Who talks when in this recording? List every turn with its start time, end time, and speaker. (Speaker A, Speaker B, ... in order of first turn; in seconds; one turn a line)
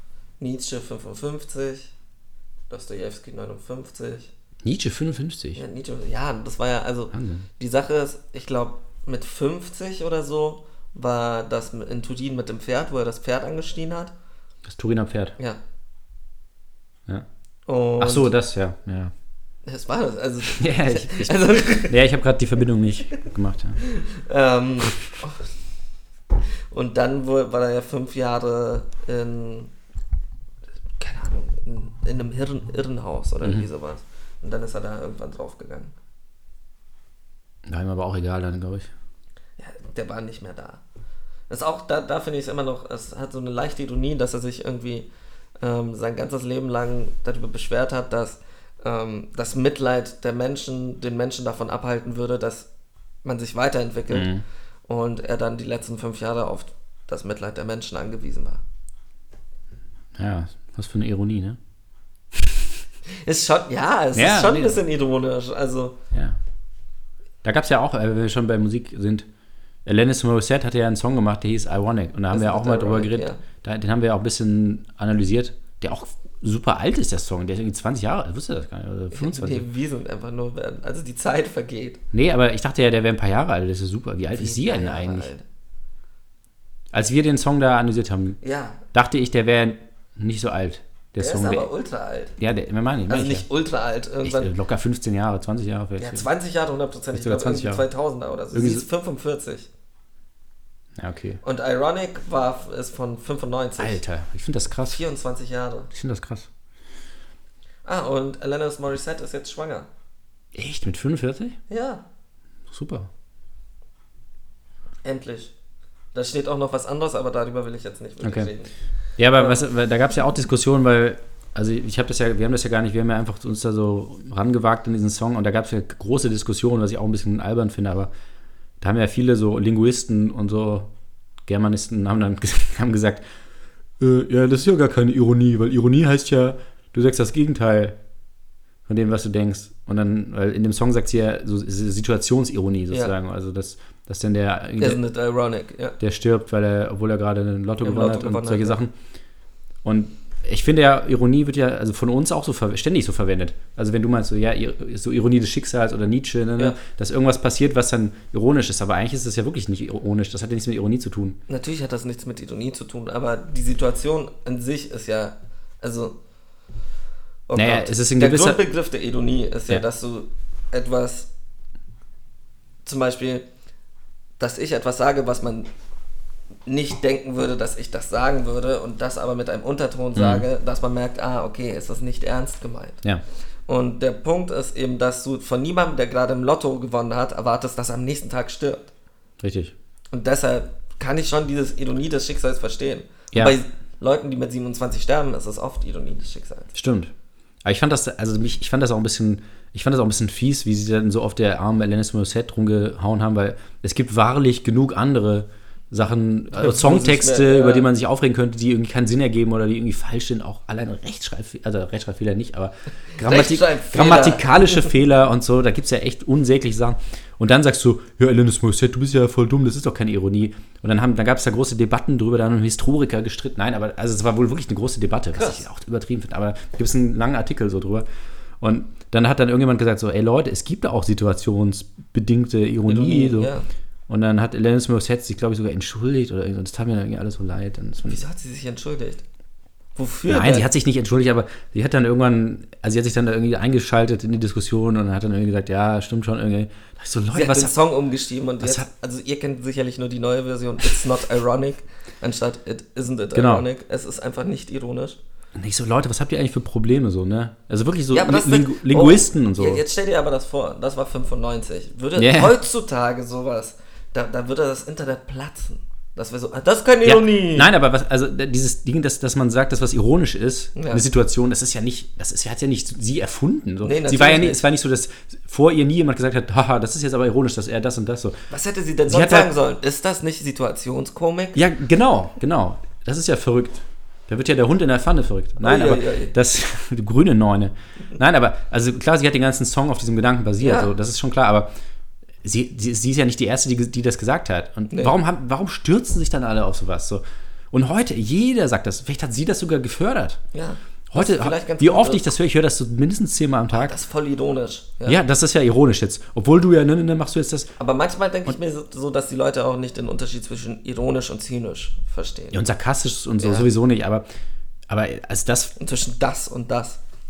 Speaker A: 0.4-1.9
Speaker A: 2.7-4.3
Speaker B: 4.6-5.6
Speaker A: 5.5-14.1
Speaker B: 7.1-7.4
Speaker B: 14.7-15.3
Speaker A: 17.7-18.3
Speaker B: 18.0-19.1
Speaker A: 19.6-22.0
Speaker B: 20.6-23.8
Speaker A: 23.8-25.4
Speaker A: 26.7-29.7
Speaker A: 31.0-35.9
Speaker B: 37.6-38.9
Speaker A: 39.6-40.8
Speaker A: 41.5-45.1
Speaker A: 45.6-52.7
Speaker A: 53.2-54.3
Speaker B: 54.1-54.4
Speaker A: 54.9-58.6
Speaker B: 60.1-61.6
Speaker B: 62.3-62.6
Speaker A: 63.2-66.0
Speaker B: 64.1-64.8
Speaker B: 66.1-66.4
Speaker B: 67.4-69.3
Speaker B: 69.8-79.6
Speaker A: 72.3-73.4
Speaker A: 79.1-82.0
Speaker B: 82.1-85.3
Speaker A: 84.3-85.4
Speaker B: 86.9-88.4
Speaker A: 88.4-88.8
Speaker B: 88.9-91.7
Speaker A: 91.2-92.3
Speaker B: 92.4-93.4
Speaker A: 93.1-94.5
Speaker B: 94.2-96.2
Speaker A: 96.0-99.7
Speaker B: 97.1-97.8
Speaker B: 98.5-98.8
Speaker B: 101.0-101.4
Speaker A: 101.4-104.0
Speaker B: 103.8-105.0
Speaker A: 104.8-105.9
Speaker B: 105.9-106.5
Speaker A: 107.8-109.9
Speaker B: 110.5-111.6
Speaker A: 111.7-112.0
Speaker B: 112.7-113.1
Speaker A: 115.0-115.5
Speaker A: 116.1-118.7
Speaker B: 118.2-118.5
Speaker B: 119.2-128.1
Speaker A: 119.3-119.6
Speaker B: 128.8-130.9
Speaker B: 131.4-133.2
Speaker B: 134.0-138.0
Speaker B: 138.9-145.0
Speaker A: 144.8-146.0
Speaker B: 146.0-148.9
Speaker A: 147.8-148.8
Speaker B: 149.8-161.4
Speaker A: 161.5-166.2
Speaker A: 167.5-171.3
Speaker B: 167.5-168.6
Speaker A: 172.8-173.5
Speaker A: 174.4-175.7
Speaker A: 176.7-183.0
Speaker B: 180.1-180.4
Speaker A: 183.7-188.9
Speaker B: 189.4-189.7
Speaker A: 190.1-196.7
Speaker B: 196.7-197.1
Speaker B: 197.6-228.0
Speaker A: 206.5-207.9
Speaker A: 213.2-214.9
Speaker A: 225.3-225.6
Speaker B: 228.6-233.5
Speaker A: 232.8-233.7
Speaker B: 234.1-238.2
Speaker A: 238.0-239.2
Speaker A: 239.9-240.7
Speaker B: 240.3-247.7
Speaker A: 247.3-255.2
Speaker B: 248.6-248.9
Speaker B: 253.3-253.7
Speaker B: 255.5-259.8
Speaker A: 258.1-267.7
Speaker B: 262.1-262.6
Speaker B: 267.0-278.4
Speaker A: 270.7-271.0
Speaker A: 273.8-274.7
Speaker A: 278.5-281.6
Speaker B: 279.1-279.5
Speaker B: 281.5-291.7
Speaker A: 285.6-286.3
Speaker A: 290.6-290.9
Speaker B: 292.4-300.4
Speaker A: 294.9-295.2
Speaker A: 300.5-302.3
Speaker B: 301.1-303.9
Speaker A: 303.7-305.2
Speaker B: 305.1-307.7
Speaker A: 307.8-312.6
Speaker B: 312.5-314.2
Speaker A: 313.4-313.7
Speaker B: 314.9-315.7
Speaker A: 315.8-317.0